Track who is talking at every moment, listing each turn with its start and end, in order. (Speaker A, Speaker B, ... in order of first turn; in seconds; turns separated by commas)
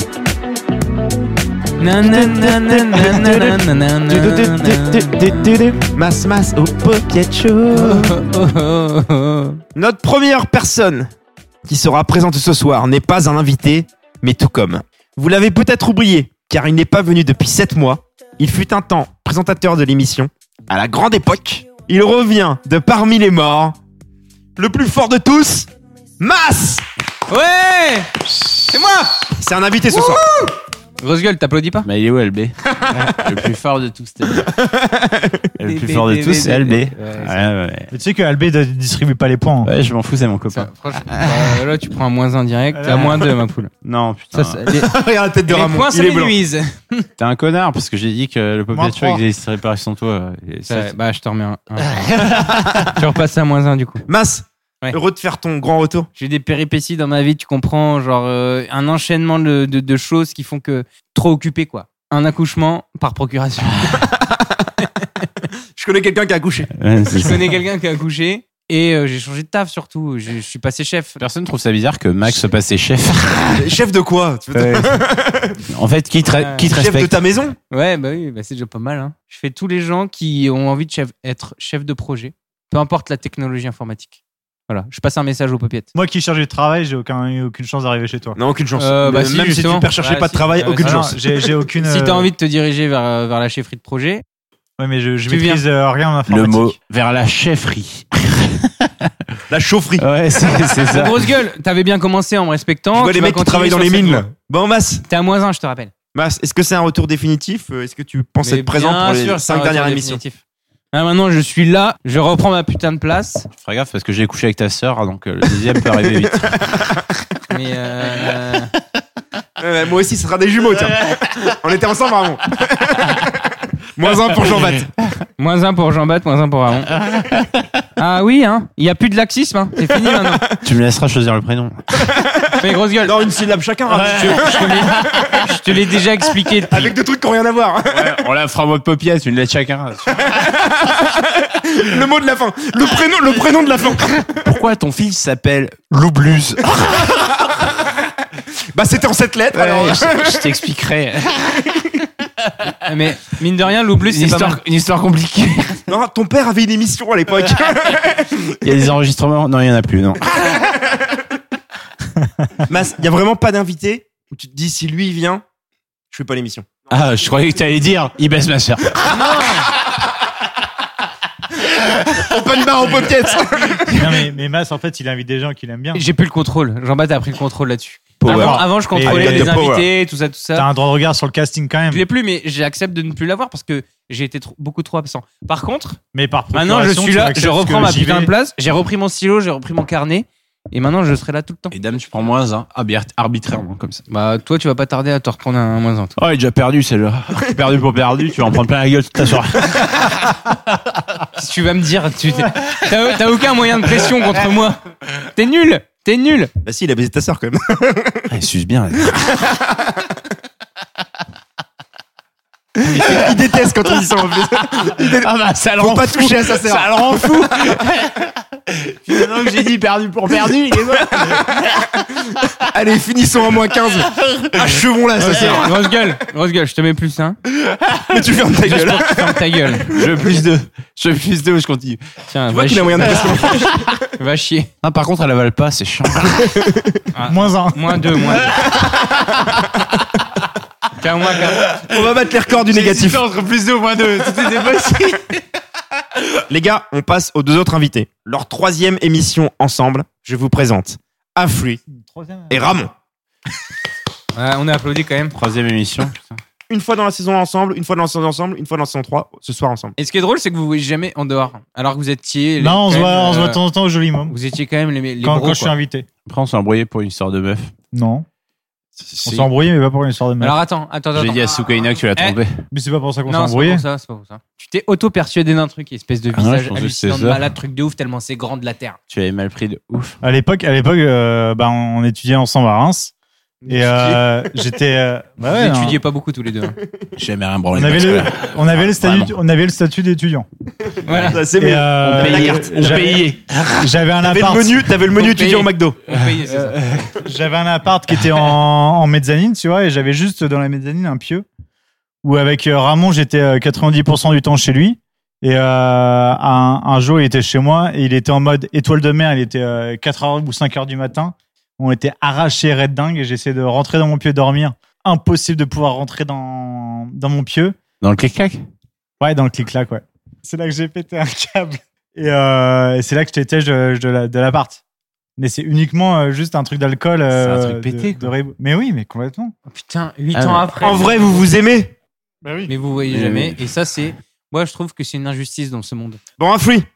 Speaker A: 1.8-5.5, Speaker B: 4.2-5.8, Speaker C: 5.9-8.2, Speaker A: 7.7-9.6, Speaker C: 9.7-11.1, Speaker C: 11.7-23.8, Speaker C: 24.6-25.7, Speaker C: 26.2-26.8, Speaker A: 27.3-29.1, Speaker C: 29.4-30.2, Speaker A: 31.0-31.9, Speaker B: 31.8-34.5, Speaker C: 34.5-35.5, Speaker B: 35.6-37.9, Speaker A: 35.6-37.4, Speaker D: 37.9-39.7, Speaker B: 39.6-41.6, Speaker A: 40.5-43.7, Speaker D: 42.7-43.2, Speaker B: 43.8-44.6, Speaker A: 44.3-44.9, Speaker C: 44.8-46.4, Speaker A: 45.5-47.1, Speaker B: 47.2-50.9, Speaker D: 48.7-49.2, Speaker A: 50.7-52.0, Speaker B: 51.9-52.8, Speaker A: 52.8-54.0, Speaker C: 54.1-56.1, Speaker A: 56.1-64.0, Speaker C: 64.0-64.7, Speaker C: 65.7-66.7, Speaker B: 66.8-67.6, Speaker A: 67.1-71.2, Speaker B: 71.2-73.7, Speaker C: 73.5-75.6, Speaker B: 74.5-75.0, Speaker B: 75.7-77.2, Speaker A: 76.4-76.7, Speaker C: 76.7-77.6, Speaker A: 77.7-84.2, Speaker A: 84.7-85.9, Speaker D: 85.9-88.4, Speaker C: 88.3-91.2, Speaker A: 88.8-91.1, Speaker D: 90.8-92.3, Speaker A: 91.8-94.2, Speaker D: 94.8-96.7, Speaker A: 95.3-95.6, Speaker B: 96.3-99.1, Speaker C: 99.5-100.0, Speaker B: 100.0-101.3, Speaker A: 100.9-104.2, Speaker C: 102.9-105.0, Speaker A: 105.1-105.9, Speaker C: 106.1-110.2, Speaker A: 108.4-110.4, Speaker A: 110.9-113.5, Speaker B: 113.5-116.8, Speaker A: 117.5-118.7, Speaker C: 119.6-123.4, Speaker C: 124.0-124.9, Speaker B: 124.4-124.7, Speaker A: 125.4-126.9, Speaker B: 126.9-127.6, Speaker A: 128.0-130.4, Speaker B: 130.6-131.8, Speaker C: 132.1-135.4, Speaker A: 132.6-133.2, Speaker B: 133.9-135.4, Speaker A: 134.0-136.9, Speaker C: 136.7-138.2, Speaker B: 137.9-140.5, Speaker C: 140.2-144.4, Speaker B: 144.3-147.2, Speaker C: 146.9-147.6, Speaker C: 148.7-150.4, Speaker B: 149.5-151.8, Speaker A: 152.8-154.6, Speaker B: 154.0-155.8, Speaker C: 155.9-158.4, Speaker B: 158.6-160.4, Speaker C: 162.7-165.4, Speaker C: 166.1-166.7, Speaker B: 166.9-169.1, Speaker A: 169.1-169.6, Speaker C: 172.2-174.1, Speaker D: 173.9-176.0, Speaker A: 175.9-180.7, Speaker C: 178.2-179.9, Speaker D: 178.2-179.6, Speaker D: 180.5-182.0, Speaker A: 181.9-186.0, Speaker D: 186.1-188.3, Speaker A: 186.5-191.7, Speaker B: 191.7-194.0, Speaker A: 194.1-196.1, Speaker B: 196.2-200.3, Speaker A: 201.3-206.5, Speaker C: 206.6-208.3, Speaker B: 208.3-209.4, Speaker C: 212.8-215.3, Speaker B: 212.8-213.9, Speaker B: 214.5-221.7, Speaker C: 215.8-217.0, Speaker C: 222.7-225.7, Speaker B: 224.1-225.7, Speaker A: 225.3-227.4, Speaker C: 228.1-229.4, Speaker A: 228.7-229.9, Speaker B: 229.9-232.0, Speaker A: 232.3-233.5, Speaker C: 232.5-233.9, Speaker A: 234.2-234.7, Speaker B: 234.8-236.5, Speaker A: 237.1-238.6, Speaker D: 237.3-238.0, Speaker B: 238.5-239.3, Speaker A: 241.0-241.6, Speaker B: 241.7-245.4, Speaker C: 241.9-243.2, Speaker C: 246.5-251.8, Speaker D: 251.9-252.8, Speaker C: 252.5-252.9, Speaker A: 254.3-255.3, Speaker B: 255.3-256.4, Speaker C: 256.7-259.9, Speaker A: 260.0-263.6, Speaker D: 262.6-264.4, Speaker A: 264.3-265.7, Speaker D: 265.2-266.1, Speaker B: 266.2-267.7, Speaker D: 267.9-268.2, Speaker B: 269.0-269.4, Speaker D: 269.2-270.6, Speaker A: 270.4-271.6, Speaker B: 271.1-272.6, Speaker D: 272.7-273.8, Speaker A: 273.3-279.0, Speaker B: 276.3-277.4, Speaker B: 279.1-280.2, Speaker D: 280.2-283.1, Speaker D: 283.7-286.0, Speaker A: 283.9-284.2, Speaker A: 285.4-286.8, Speaker B: 287.2-289.4, Speaker D: 287.7-290.4, Speaker A: 291.1-291.4, Speaker B: 291.1-291.4, Speaker C: 291.3-293.2, Speaker D: 291.6-294.9, Speaker B: 292.0-293.9, Speaker C: 294.2-296.0, Speaker A: 295.2-296.8, Speaker B: 296.4-297.1, Speaker D: 297.2-301.4, Speaker D: 302.2-317.8, Speaker B: 318.0-318.6, Speaker D: 319.2-324.8, Speaker D: 325.4-329.5, Speaker B: 327.3-328.3, Speaker A: 329.7-331.4, Speaker B: 330.3-330.7, Speaker C: 330.8-331.9, Speaker D: 332.4-332.7, Speaker A: 332.7-336.2, Speaker B: 333.0-333.6, Speaker C: 336.4-336.9